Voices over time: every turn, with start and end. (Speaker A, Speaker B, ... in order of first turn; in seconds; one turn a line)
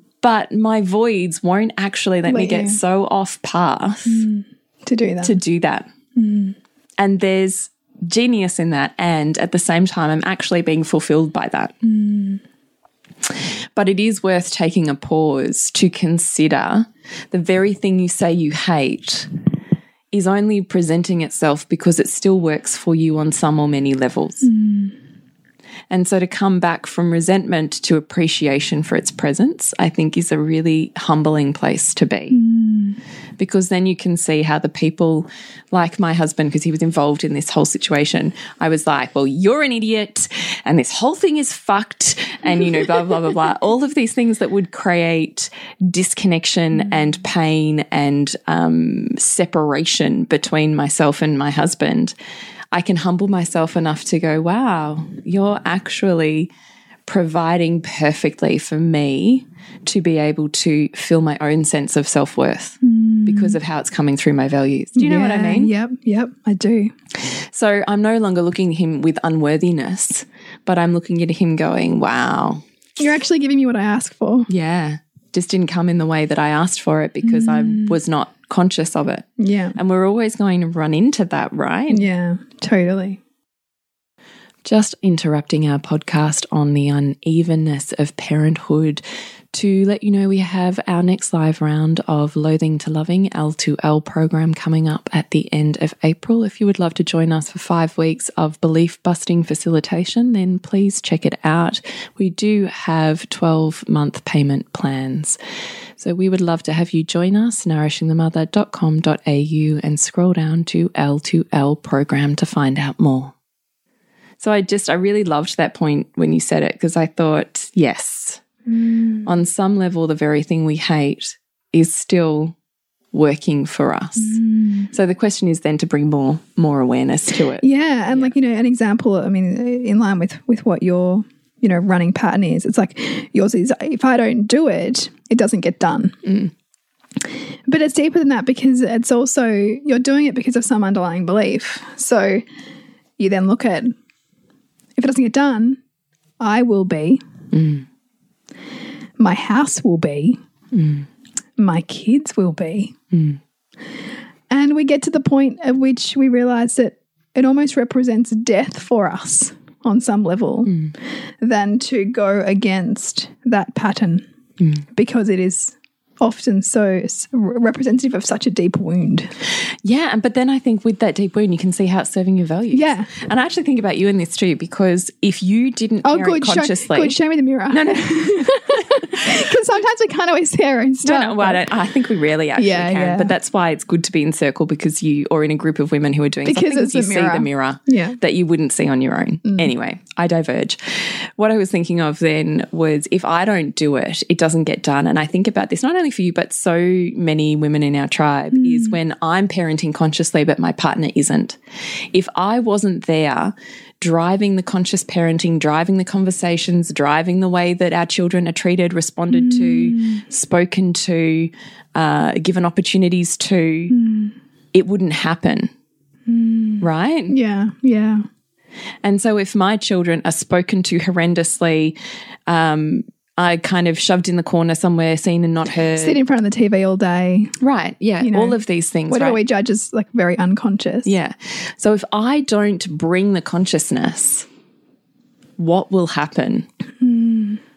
Speaker A: 0.2-4.2
Speaker B: 2.2-2.8
Speaker B: 4.1-5.4
Speaker A: 5.2-5.9
Speaker B: 6.2-6.6
Speaker A: 7.0-11.8
Speaker B: 11.8-12.4
Speaker A: 13.3-19.3
Speaker A: 20.1-24.5
Speaker B: 24.4-24.9
Speaker A: 25.9-32.4
Speaker B: 32.3-33.0
Speaker A: 33.4-52.1
Speaker A: 52.7-56.5
Speaker A: 57.1-65.7
Speaker B: 62.8-63.6
Speaker B: 65.0-66.9
Speaker A: 67.2-72.6
Speaker B: 73.0-74.5
Speaker A: 74.5-82.1
Speaker B: 77.2-78.0
Speaker B: 79.4-79.8
Speaker B: 81.9-83.2
Speaker A: 84.7-105.4
Speaker A: 106.0-113.3
Speaker A: 114.4-118.4
Speaker B: 118.7-119.3
Speaker A: 119.2-122.5
Speaker A: 123.1-124.4
Speaker B: 124.2-124.9
Speaker A: 124.9-128.3
Speaker B: 127.6-136.2
Speaker A: 136.2-136.5
Speaker B: 137.7-142.4
Speaker B: 143.2-143.9
Speaker B: 145.0-145.8
Speaker B: 146.4-147.2
Speaker A: 147.5-147.9
Speaker B: 149.2-150.4
Speaker A: 150.7-151.1
Speaker B: 151.6-152.9
Speaker A: 153.1-153.4
Speaker B: 154.5-160.7
Speaker A: 160.7-160.9
Speaker B: 161.4-164.3
Speaker A: 164.6-164.8
Speaker B: 164.9-169.3
Speaker A: 169.8-177.2
Speaker B: 172.7-173.1
Speaker B: 176.0-181.7
Speaker A: 177.7-179.4
Speaker A: 181.0-201.6
Speaker B: 182.6-183.3
Speaker B: 186.4-188.2
Speaker B: 189.4-189.7
Speaker B: 198.5-199.0
Speaker A: 202.1-213.9
Speaker B: 209.3-210.2
Speaker B: 213.9-214.3
Speaker A: 214.7-215.7
Speaker B: 216.3-218.2
Speaker A: 216.8-217.4
Speaker A: 219.0-221.9
Speaker A: 222.5-226.2
Speaker B: 226.0-227.6
Speaker A: 227.6-229.4
Speaker B: 228.2-231.1
Speaker A: 231.1-234.5
Speaker A: 235.6-236.7
Speaker B: 237.0-237.6